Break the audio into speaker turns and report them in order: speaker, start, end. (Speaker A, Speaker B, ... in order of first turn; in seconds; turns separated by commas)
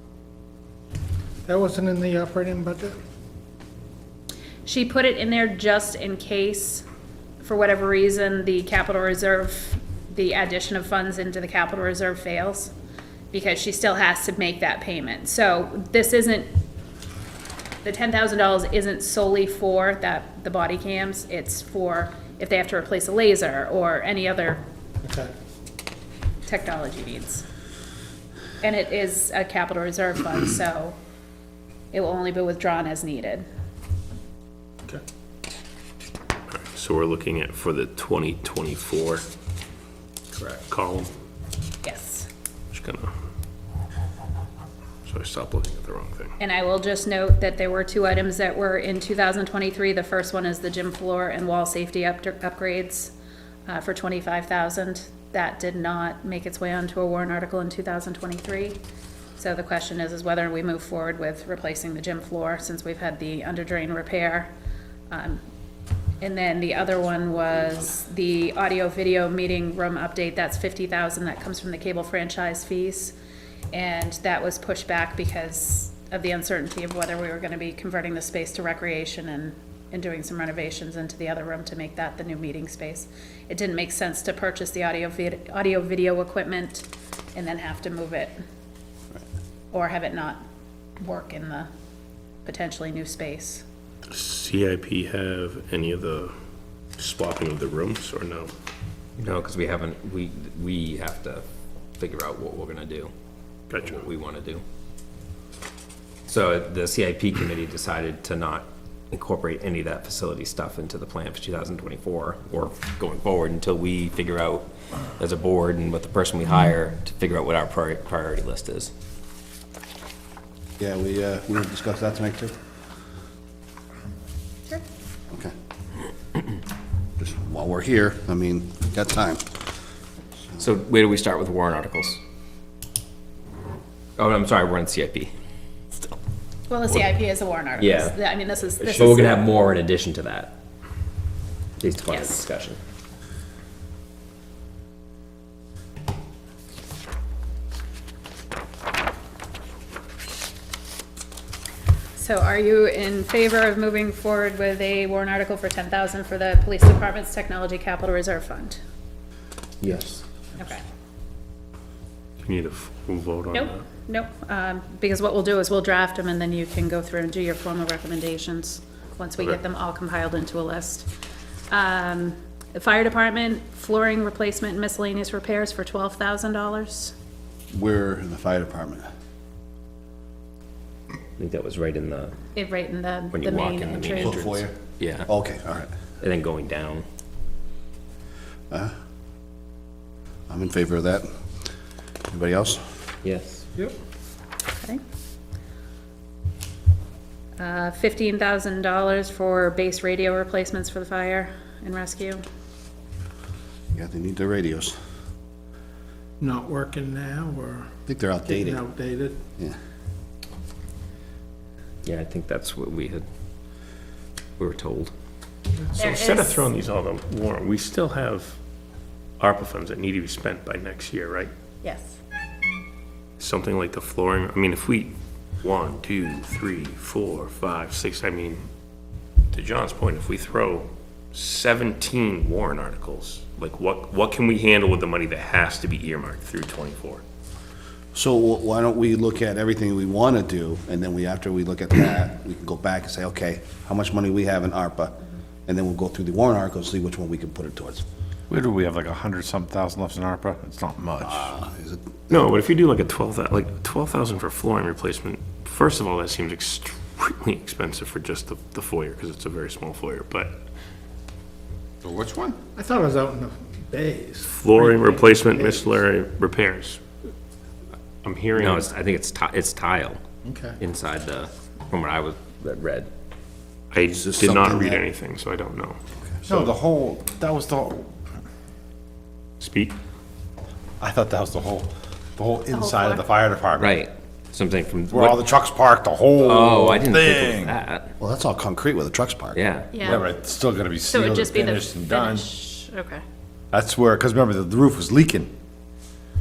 Speaker A: 1.4-3.0, Speaker B: 4.7-6.8, Speaker B: 7.4-12.7, Speaker B: 13.3-16.5, Speaker B: 17.8-24.6, Speaker A: 25.0-25.3, Speaker B: 26.4-27.4, Speaker B: 28.6-30.9, Speaker B: 31.9-33.5, Speaker C: 36.5-39.2, Speaker C: 40.3-41.1, Speaker B: 41.8-42.3, Speaker C: 42.7-43.1, Speaker C: 45.0-46.3, Speaker B: 46.4-53.1, Speaker B: 53.7-58.8, Speaker B: 59.4-64.5, Speaker B: 65.1-65.4, Speaker B: 66.2-73.1, Speaker B: 73.7-88.4, Speaker B: 89.7-90.4, Speaker B: 91.0-91.7, Speaker B: 92.4-93.6, Speaker C: 94.1-96.3, Speaker C: 97.0-98.5, Speaker D: 99.2-101.4, Speaker D: 102.0-103.1, Speaker C: 103.7-104.0, Speaker D: 103.8-104.6, Speaker D: 106.2-118.9, Speaker E: 120.8-122.5, Speaker E: 127.2-129.5, Speaker D: 130.6-132.2, Speaker D: 134.2-135.3, Speaker B: 136.7-139.5, Speaker D: 137.8-138.1, Speaker D: 138.8-140.6, Speaker D: 141.8-142.8, Speaker B: 142.1-142.4, Speaker B: 152.2-158.8, Speaker D: 159.8-160.2, Speaker C: 162.4-163.8, Speaker B: 163.5-171.1, Speaker B: 171.7-177.1, Speaker E: 177.7-179.1, Speaker D: 181.4-182.3, Speaker B: 182.5-184.4, Speaker D: 183.3-185.3, Speaker E: 184.2-185.9, Speaker D: 186.2-187.0, Speaker E: 190.5-191.3, Speaker E: 192.3-192.9, Speaker D: 193.2-193.6, Speaker B: 197.6-202.4, Speaker E: 203.9-204.9, Speaker A: 206.4-209.4, Speaker E: 208.1-208.8, Speaker D: 212.0-213.2, Speaker D: 214.6-215.1, Speaker C: 215.9-218.6, Speaker B: 216.0-216.7, Speaker C: 219.4-221.5, Speaker B: 221.8-222.1, Speaker C: 223.4-228.7, Speaker C: 229.5-237.2, Speaker E: 238.1-248.0, Speaker F: 248.5-251.5, Speaker E: 251.2-252.1, Speaker C: 252.3-260.6, Speaker F: 262.0-262.6, Speaker A: 262.7-266.0, Speaker C: 264.5-267.0, Speaker C: 268.2-268.9, Speaker D: 268.6-270.2, Speaker A: 270.4-270.8, Speaker D: 270.8-273.1, Speaker C: 273.9-276.0, Speaker E: 274.1-275.0, Speaker F: 276.5-278.1, Speaker C: 279.6-279.9, Speaker F: 281.0-284.0, Speaker B: 282.7-283.3, Speaker D: 283.8-285.5, Speaker F: 285.1-287.8, Speaker D: 286.4-288.1, Speaker E: 288.2-289.6, Speaker D: 289.5-290.1, Speaker B: 289.9-290.3, Speaker F: 290.0-292.5, Speaker B: 291.0-293.2, Speaker F: 293.7-295.5